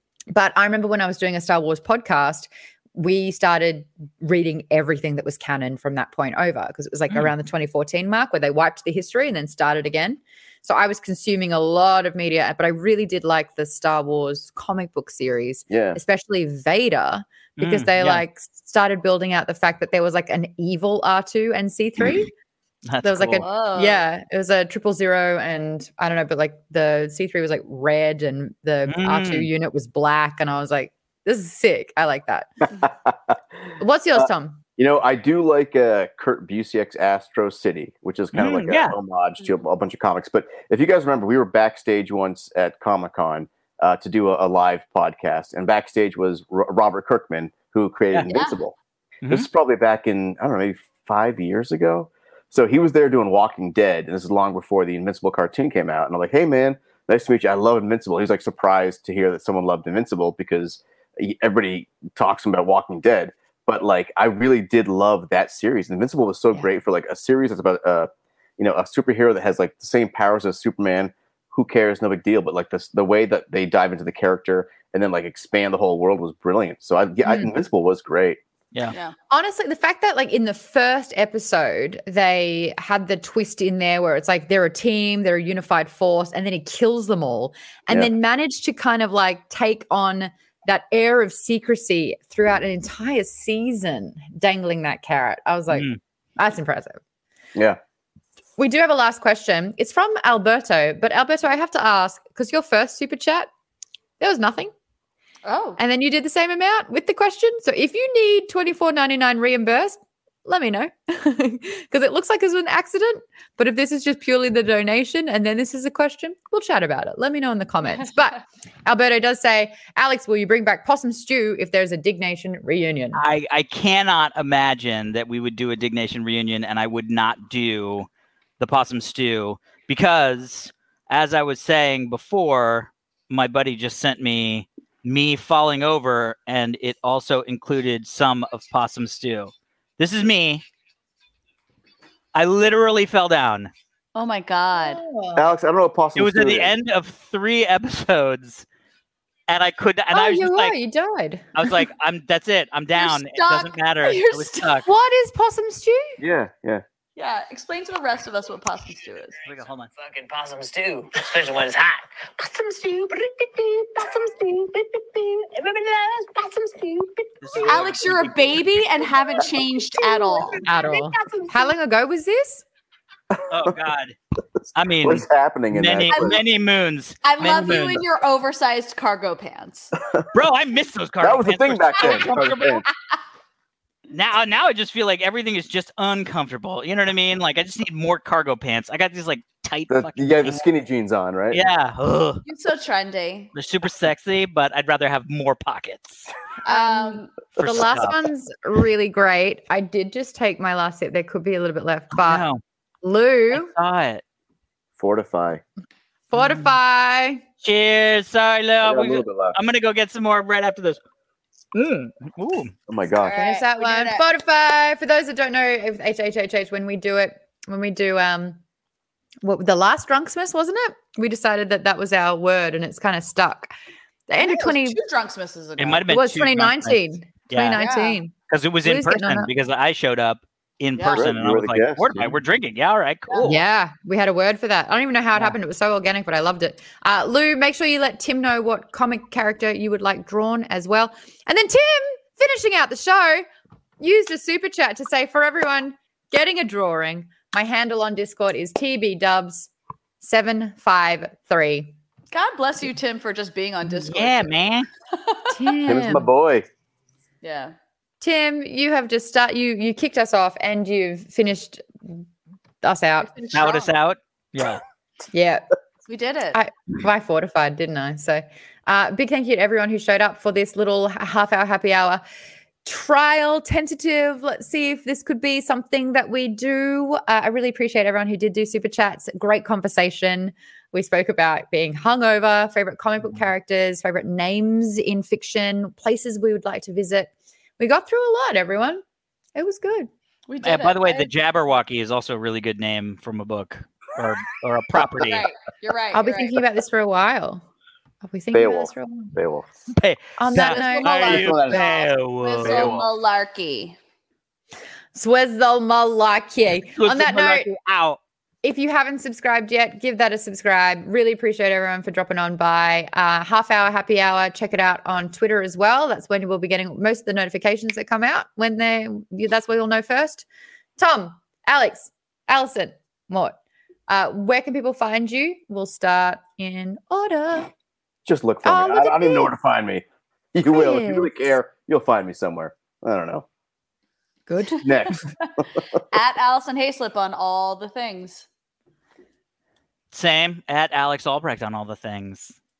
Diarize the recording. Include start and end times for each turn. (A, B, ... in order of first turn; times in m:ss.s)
0:00.3-0:22.3 A
0:15.7-0:16.0 B
0:17.6-0:18.2 C
0:22.9-0:23.4 C
0:23.0-0:32.6 A
0:23.4-0:24.0 D
0:28.8-0:29.5 C
0:32.8-0:33.4 B
0:33.8-0:34.6 A
0:34.1-0:48.8 B
0:38.3-0:38.9 C
0:48.3-0:48.6 D
0:49.2-0:49.5 C
0:49.3-1:18.4 B
1:17.2-1:17.5 A
1:19.3-1:37.0 A
1:35.7-1:36.0 C
1:38.6-1:43.5 A
1:44.2-1:44.7 A
1:45.4-1:45.8 D
1:45.8-2:03.2 A
2:03.1-2:08.1 C
2:08.6-2:20.6 C
2:22.3-2:23.7 C
2:24.1-2:25.0 D
2:24.7-2:25.4 A
2:25.4-2:26.7 B
2:26.2-2:28.6 C
2:29.5-2:30.7 C
2:30.1-2:31.8 A
2:31.6-2:34.9 C
2:33.0-2:34.7 D
2:34.8-2:36.2 A
2:36.2-2:36.8 B
2:37.2-2:39.4 D
2:39.4-2:39.9 C
2:40.0-2:47.9 E
2:47.4-2:48.6 C
2:47.6-2:50.6 D
2:49.0-2:51.8 E
2:50.6-2:52.6 A
2:53.3-2:53.8 B
2:53.5-2:54.2 C
2:54.7-2:58.0 C
2:55.0-2:56.4 B
2:56.1-2:56.4 D
2:57.2-2:59.9 D
3:00.3-3:02.8 C
3:01.2-3:02.8 B
3:04.1-3:10.6 C
3:09.9-3:11.6 B
3:11.5-3:12.4 C
3:12.4-3:13.5 D
3:13.5-3:16.3 C
3:16.6-3:17.3 D
3:16.7-3:22.4 A
3:17.6-3:18.1 C
3:22.2-3:22.6 C
3:23.0-3:23.7 A
3:23.5-3:24.2 C
3:25.0-3:25.6 B
3:26.3-3:27.4 A
3:26.4-3:26.7 C
3:27.6-3:31.0 C
3:28.8-3:29.6 B
3:31.7-3:32.7 C
3:32.9-3:33.4 B
3:33.2-3:34.2 D
3:33.2-3:38.6 A
3:39.4-3:43.7 A
3:44.3-3:45.0 A
3:44.4-3:46.1 D
3:45.8-3:47.8 C
3:46.1-3:48.3 A
3:47.8-3:48.2 D
3:48.5-3:53.6 C
3:48.8-3:49.5 A
3:51.0-3:51.3 D
3:51.1-3:52.4 B
3:53.3-3:53.5 D
3:53.4-4:03.4 A
4:04.0-4:09.7 A
4:10.2-4:11.9 A
4:12.3-4:14.5 D
4:13.9-4:14.9 C
4:15.1-4:15.7 D
4:15.5-4:16.3 A
4:15.8-4:16.6 B
4:17.4-4:17.7 D
4:18.2-4:22.2 A
4:22.8-4:23.3 A
4:23.3-4:23.9 D
4:23.5-4:24.8 C
4:25.3-4:25.7 A
4:26.0-4:26.6 D
4:26.5-4:32.2 A
4:32.8-4:49.0 A
4:49.5-4:50.1 A
4:50.5-4:51.3 D
4:50.6-4:55.4 C
4:55.2-4:56.6 D
4:56.1-4:57.6 A
4:58.2-4:59.3 A
4:58.5-4:59.7 B
4:59.9-5:03.0 C
5:00.4-5:01.6 A
5:00.6-5:03.9 D
5:01.0-5:01.8 B
5:02.6-5:03.1 B
5:05.1-5:07.7 A
5:07.0-5:08.2 C
5:08.6-5:20.4 A
5:21.0-5:23.6 A
5:24.1-5:27.7 A
5:28.2-5:33.4 B
5:28.6-5:29.5 A
5:30.6-5:31.4 A
5:34.5-5:35.2 A
5:34.8-5:35.8 B
5:36.1-5:38.5 D
5:40.1-5:42.5 C